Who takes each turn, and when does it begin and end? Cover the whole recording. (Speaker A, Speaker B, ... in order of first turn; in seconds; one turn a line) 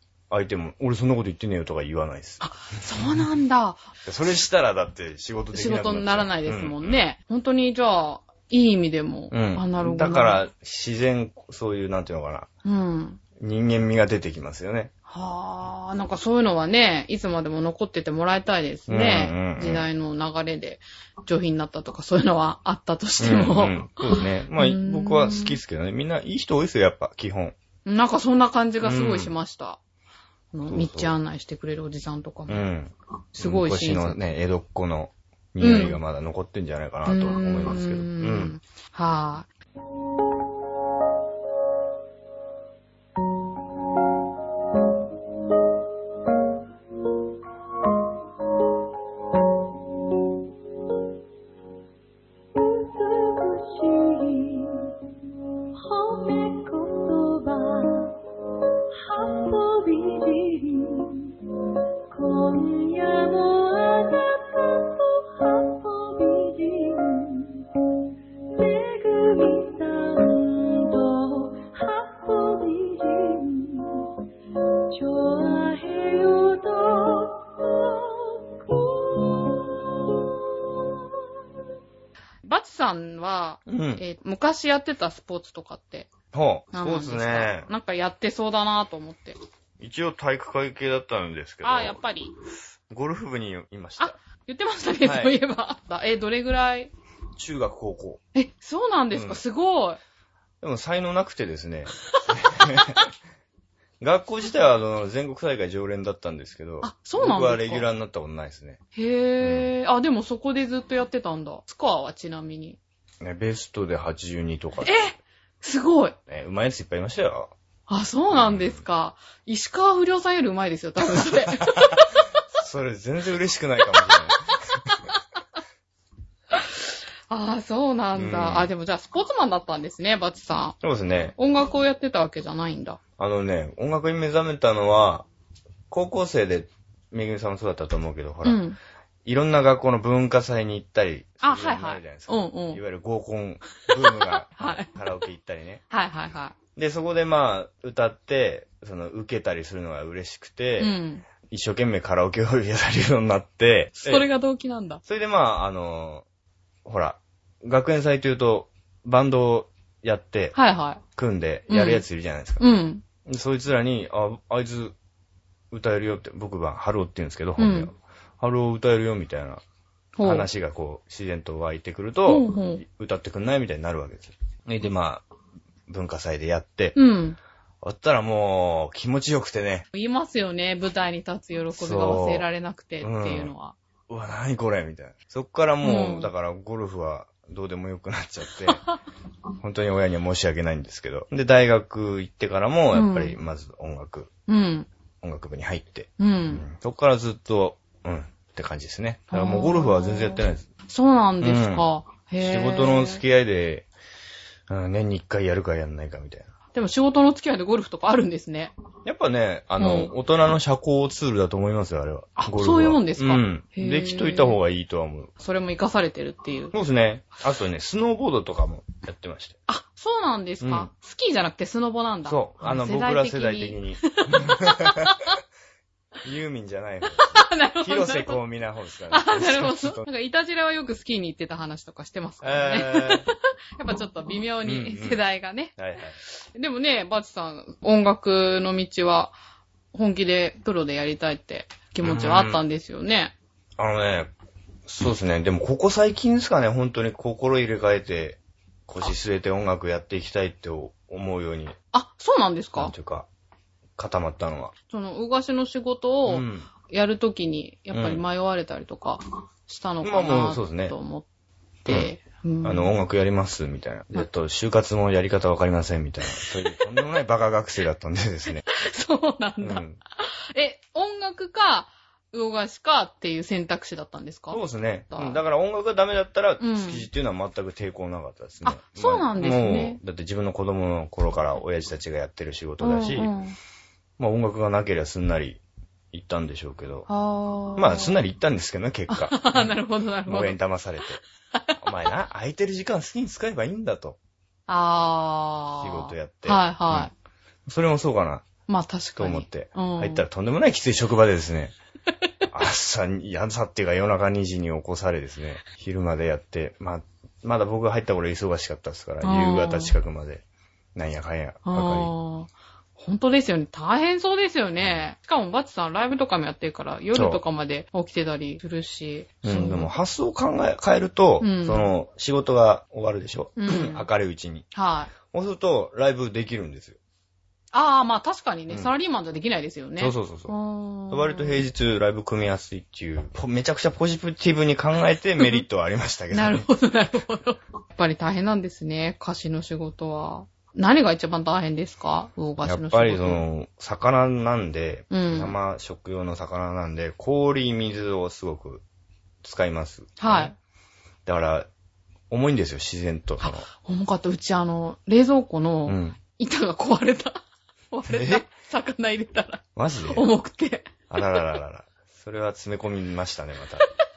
Speaker A: 0.3-2.4
Speaker B: 2.4-3.9
Speaker A: 4.0-7.0
Speaker B: 5.5-10.4
Speaker A: 9.3-12.5
Speaker B: 12.7-13.2
Speaker A: 13.4-14.9
Speaker B: 15.1-25.6
Speaker A: 18.9-19.9
Speaker A: 23.2-27.6
Speaker B: 27.9-29.8
Speaker A: 28.8-29.3
Speaker B: 30.5-32.7
Speaker A: 30.7-31.1
Speaker A: 32.5-38.5
Speaker B: 33.4-34.2
Speaker B: 35.6-36.0
Speaker B: 37.1-39.5
Speaker C: 52.5-54.9
Speaker C: 55.8-58.2
Speaker C: 58.9-61.4
Speaker C: 62.1-67.7
Speaker C: 68.5-74.1
Speaker C: 74.9-79.8
Speaker B: 82.4-86.1
Speaker A: 83.7-84.0
Speaker A: 86.3-87.7
Speaker B: 86.7-89.4
Speaker A: 89.8-92.0
Speaker B: 91.6-92.3
Speaker A: 92.9-94.2
Speaker B: 94.0-96.9
Speaker A: 95.0-95.3
Speaker A: 97.4-98.2
Speaker B: 98.3-100.0
Speaker A: 99.1-99.4
Speaker A: 100.6-103.1
Speaker A: 104.0-108.8
Speaker B: 106.8-107.9
Speaker B: 109.0-112.8
Speaker A: 109.4-109.7
Speaker A: 113.2-115.1
Speaker B: 114.8-116.2
Speaker A: 116.3-117.5
Speaker B: 117.9-122.2
Speaker A: 118.3-118.8
Speaker A: 121.6-121.9
Speaker A: 122.5-124.9
Speaker B: 124.9-125.2
Speaker B: 126.5-130.8
Speaker A: 128.2-128.7
Speaker A: 130.8-131.4
Speaker B: 131.4-133.0
Speaker A: 133.2-135.3
Speaker A: 135.9-138.6
Speaker B: 138.4-138.8
Speaker A: 139.2-145.8
Speaker B: 141.4-142.8
Speaker B: 144.0-144.9
Speaker B: 145.9-146.6
Speaker A: 146.8-154.3
Speaker B: 150.8-151.2
Speaker B: 154.0-155.0
Speaker A: 155.1-156.2
Speaker A: 156.8-160.6
Speaker B: 160.6-161.0
Speaker A: 161.2-162.6
Speaker B: 161.7-162.0
Speaker B: 162.6-163.0
Speaker A: 163.2-164.9
Speaker A: 165.7-169.6
Speaker B: 167.6-167.9
Speaker B: 170.2-170.5
Speaker A: 170.2-175.2
Speaker B: 172.3-172.8
Speaker A: 175.9-177.0
Speaker B: 177.0-177.4
Speaker A: 177.8-179.9
Speaker B: 179.9-183.8
Speaker A: 181.7-182.5
Speaker A: 183.0-183.5
Speaker A: 184.1-188.8
Speaker B: 185.8-186.3
Speaker A: 189.6-194.3
Speaker B: 192.9-193.4
Speaker B: 194.5-194.9
Speaker A: 195.2-200.7
Speaker B: 196.2-196.7
Speaker B: 199.3-203.2
Speaker A: 201.4-201.9
Speaker A: 202.4-203.9
Speaker A: 204.7-206.5
Speaker B: 206.7-208.7
Speaker A: 209.1-215.3
Speaker B: 209.8-210.1
Speaker B: 212.4-214.6
Speaker B: 215.4-216.7
Speaker A: 216.7-219.6
Speaker B: 219.7-225.4
Speaker A: 220.6-220.9
Speaker A: 222.3-225.2
Speaker A: 226.2-230.0
Speaker B: 227.1-228.4
Speaker B: 229.1-235.7
Speaker A: 232.4-233.3
Speaker A: 234.6-235.2
Speaker A: 235.8-236.2
Speaker B: 236.5-239.3
Speaker B: 239.9-243.3
Speaker A: 242.0-242.6
Speaker A: 243.8-244.3
Speaker A: 244.9-251.8
Speaker B: 251.9-252.9
Speaker A: 252.8-253.3
Speaker A: 254.0-254.7
Speaker B: 254.9-261.3
Speaker A: 256.3-256.7
Speaker A: 257.9-258.2
Speaker A: 260.0-260.9
Speaker B: 261.9-262.9
Speaker A: 262.6-268.6
Speaker B: 266.3-266.8
Speaker B: 268.7-274.6
Speaker A: 269.6-270.0
Speaker A: 274.5-283.3
Speaker B: 275.1-275.4
Speaker B: 276.6-277.1
Speaker B: 278.6-280.0
Speaker B: 282.8-283.6
Speaker A: 284.2-285.6
Speaker A: 286.1-287.1
Speaker B: 287.1-288.2
Speaker A: 287.8-289.7
Speaker B: 289.1-290.6
Speaker A: 290.3-291.2
Speaker A: 291.8-294.2
Speaker B: 294.7-297.1
Speaker A: 295.8-297.1
Speaker A: 297.7-298.5
Speaker B: 298.7-300.2
Speaker A: 299.2-301.8
Speaker A: 302.5-310.4
Speaker B: 309.2-310.0
Speaker A: 310.9-312.1
Speaker B: 311.7-319.9
Speaker A: 317.1-317.4
Speaker A: 319.4-324.7
Speaker B: 321.4-321.9
Speaker B: 323.6-324.1
Speaker B: 324.7-325.1
Speaker A: 325.2-327.0
Speaker B: 327.7-331.6
Speaker A: 330.0-330.5
Speaker A: 331.1-336.7
Speaker B: 336.3-343.4
Speaker A: 342.6-348.8
Speaker B: 345.1-345.6
Speaker A: 349.4-350.5
Speaker B: 350.2-350.6
Speaker A: 351.3-351.7
Speaker A: 352.3-353.7
Speaker B: 353.4-357.4
Speaker A: 355.9-356.2
Speaker B: 357.9-361.1
Speaker A: 358.1-358.4
Speaker A: 359.8-360.3
Speaker A: 361.1-363.9